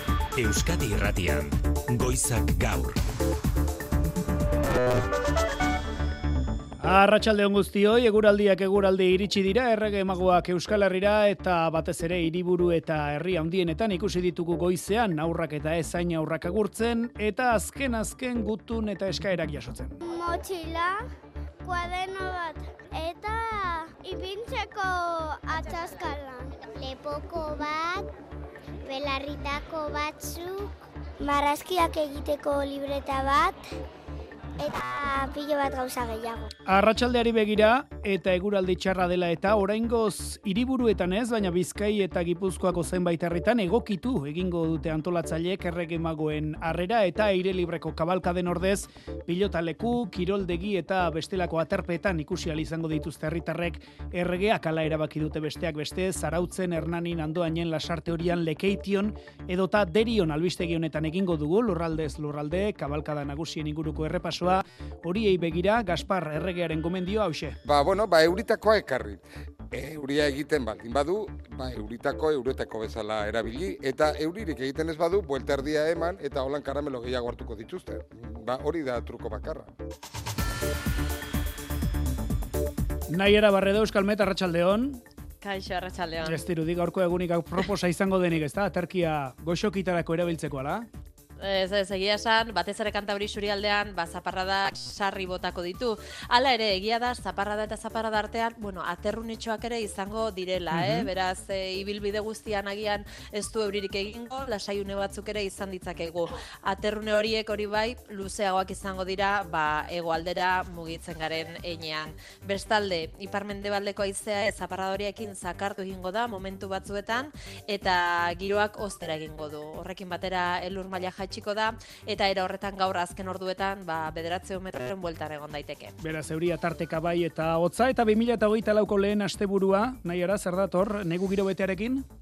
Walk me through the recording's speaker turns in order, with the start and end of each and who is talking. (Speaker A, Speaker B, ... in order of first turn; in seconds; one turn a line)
Speaker A: 0.4-3.0
Speaker B: 6.8-20.0
Speaker C: 20.0-21.0
Speaker C: 21.6-28.1
Speaker C: 28.9-33.6
Speaker C: 34.6-36.5
Speaker B: 36.7-67.6
Speaker D: 67.7-79.7
Speaker B: 83.1-85.0
Speaker E: 85.4-86.3
Speaker B: 86.2-90.9
Speaker E: 91.4-125.9
Speaker B: 126.0-132.0